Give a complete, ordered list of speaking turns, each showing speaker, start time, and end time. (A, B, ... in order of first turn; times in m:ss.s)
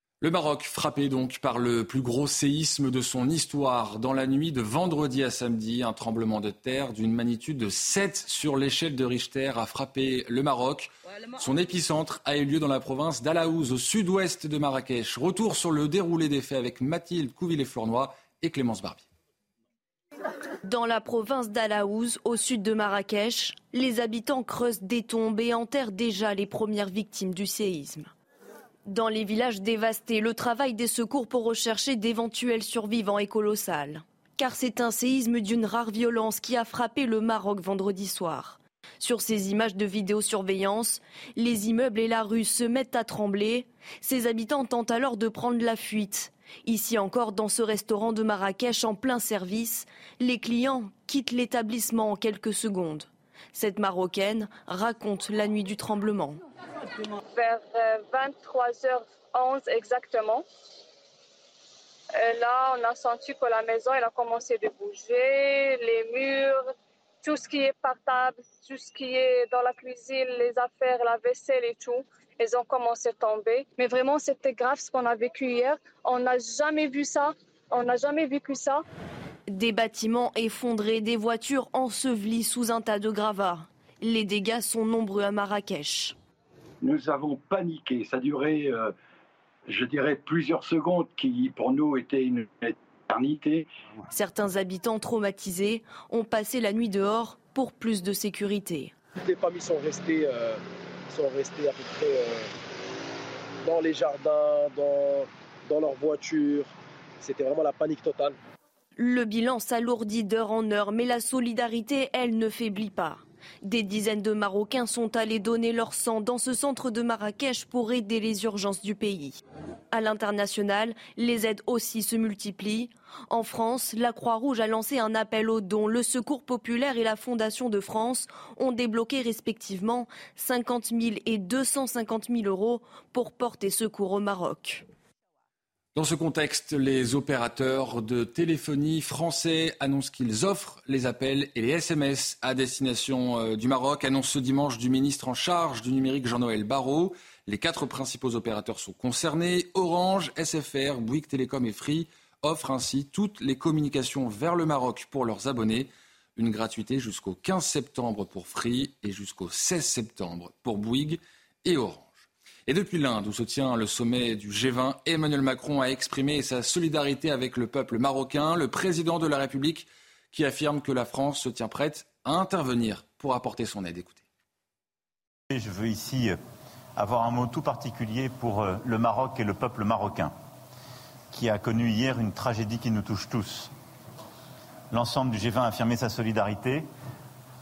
0:00.2-0:19.0 A
0:20.6-0:28.1 B
0:28.8-0:56.4 B
0:57.3-1:00.4 C
1:02.2-1:06.6 C
1:07.2-1:18.8 C
1:19.5-1:26.2 B
1:26.8-1:28.9 D
1:29.7-1:33.6 D
1:34.1-1:38.9 B
1:39.2-1:42.5 E
1:43.6-1:48.4 E
1:49.0-2:14.8 B
2:15.9-2:54.2 A
2:55.5-2:56.4 F
2:57.0-3:00.3 F
3:01.3-3:03.7 F
3:04.9-3:06.8 F